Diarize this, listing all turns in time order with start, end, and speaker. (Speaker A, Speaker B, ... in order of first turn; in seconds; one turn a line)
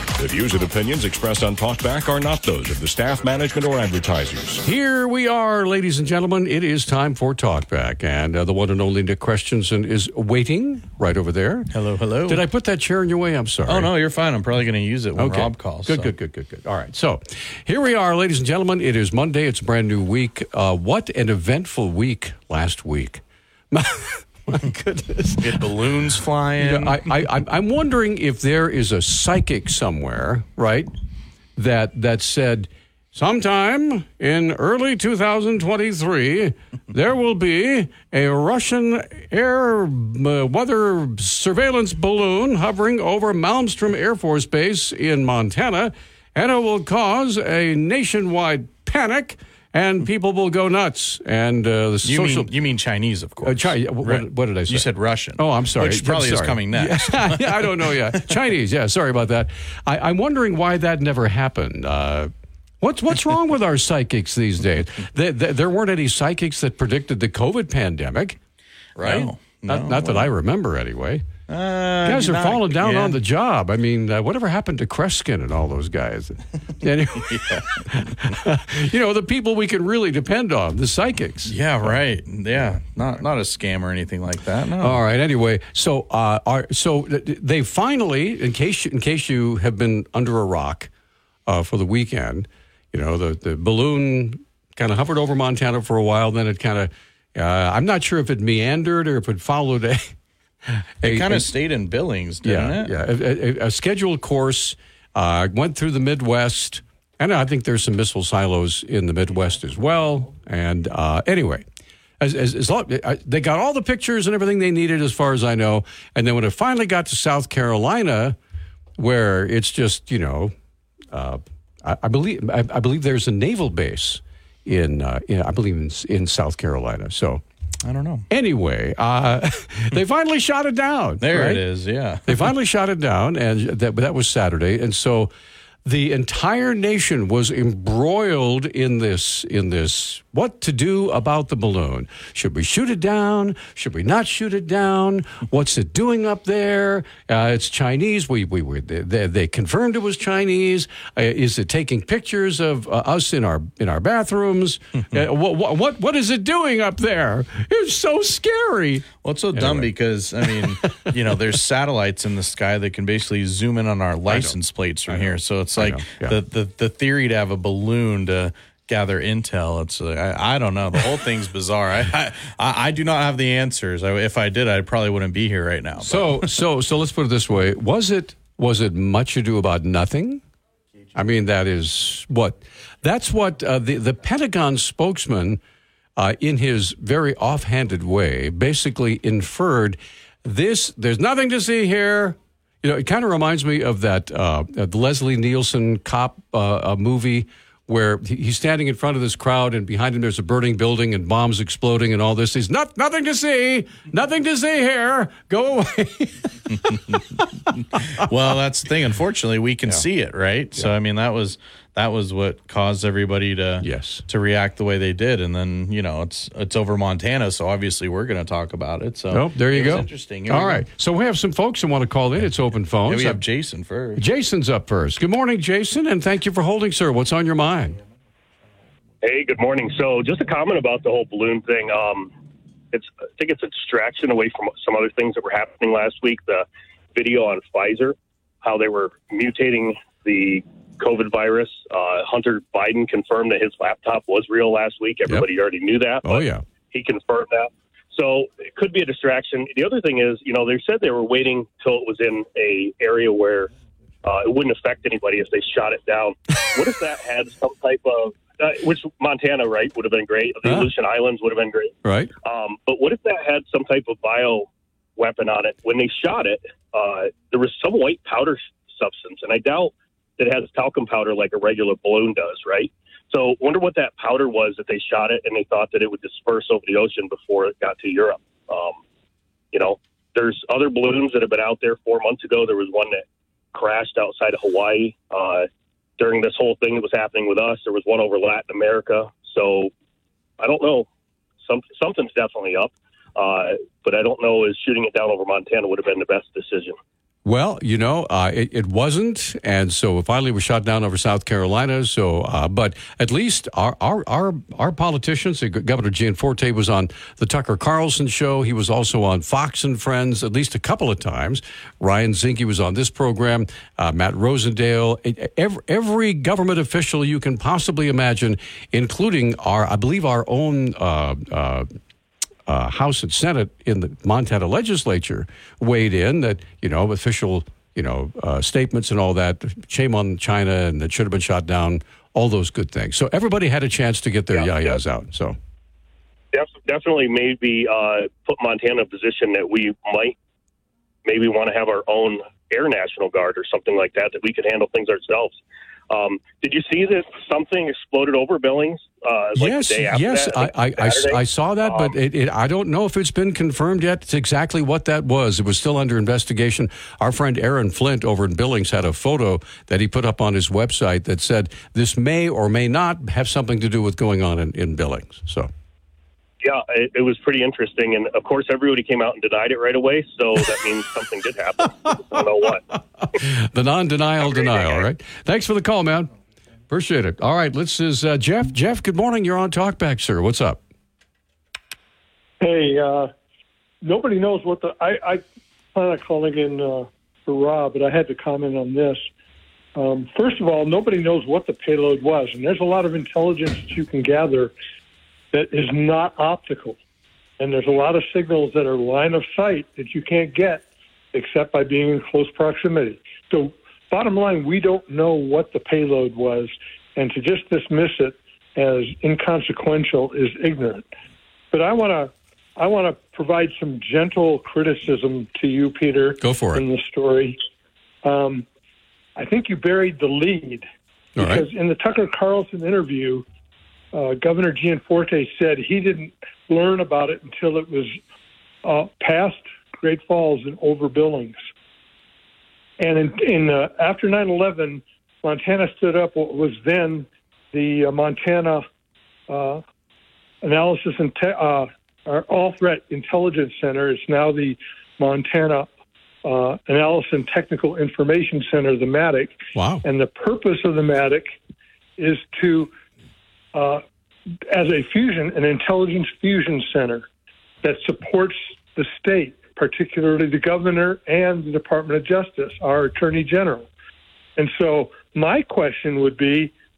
Speaker A: 0.1-4.6
Speaker B: 4.6-11.7
Speaker C: 11.7-12.4
Speaker B: 12.3-13.9
Speaker C: 13.7-16.1
Speaker B: 15.2-25.6
Speaker C: 25.4-27.0
Speaker B: 26.6-30.9
Speaker B: 31.6-52.5
Speaker C: 52.0-57.9
Speaker B: 53.4-68.4
Speaker C: 69.0-70.3
Speaker B: 69.0-71.3
Speaker C: 71.5-73.2
Speaker B: 72.0-77.3
Speaker C: 77.2-77.8
Speaker B: 77.9-82.0
Speaker C: 81.5-85.0
Speaker B: 84.8-90.9
Speaker B: 91.5-100.1
Speaker B: 101.0-101.5
Speaker C: 101.0-102.9
Speaker B: 102.4-111.6
Speaker B: 112.2-118.3
Speaker B: 119.0-120.5
Speaker B: 121.1-127.4
Speaker C: 127.8-128.2
Speaker B: 128.3-131.6
Speaker C: 131.2-132.5
Speaker B: 132.3-135.3
Speaker B: 135.8-159.9
Speaker C: 159.2-176.4
Speaker B: 164.3-164.6
Speaker B: 165.1-166.3
Speaker B: 176.0-180.4
Speaker B: 181.1-185.6
Speaker B: 186.2-207.4
Speaker C: 208.2-220.8
Speaker B: 213.8-214.2
Speaker B: 219.3-223.4
Speaker C: 223.1-224.2
Speaker B: 224.2-227.9
Speaker D: 229.2-232.3
Speaker D: 232.9-253.7
Speaker B: 246.2-246.6
Speaker D: 254.2-261.9
Speaker B: 260.6-260.9
Speaker B: 262.0-262.3
Speaker D: 262.4-279.0
Speaker D: 279.7-289.9
Speaker D: 290.6-291.1
Speaker D: 291.6-297.0
Speaker B: 297.4-321.9
Speaker B: 322.7-335.6
Speaker D: 334.5-335.0
Speaker D: 336.5-340.3
Speaker D: 341.2-345.6
Speaker D: 346.1-352.1
Speaker B: 349.6-365.7
Speaker D: 366.6-372.8
Speaker B: 373.4-376.3
Speaker D: 374.4-375.0
Speaker B: 376.9-380.8
Speaker E: 382.6-383.3
Speaker E: 384.0-385.4
Speaker E: 385.9-389.2
Speaker E: 389.9-394.7
Speaker E: 395.5-397.0
Speaker E: 397.6-411.0
Speaker E: 411.7-417.6
Speaker B: 416.4-416.8
Speaker E: 418.2-418.6
Speaker E: 419.4-420.8
Speaker B: 421.4-421.6
Speaker E: 421.4-423.4
Speaker E: 424.1-428.1
Speaker E: 428.8-431.6
Speaker E: 433.0-438.8
Speaker E: 439.5-439.8
Speaker E: 440.6-445.9
Speaker E: 446.4-451.5
Speaker B: 449.7-450.0
Speaker E: 452.2-452.9
Speaker E: 453.7-454.0
Speaker E: 454.7-457.2
Speaker E: 457.8-463.9
Speaker E: 464.6-466.7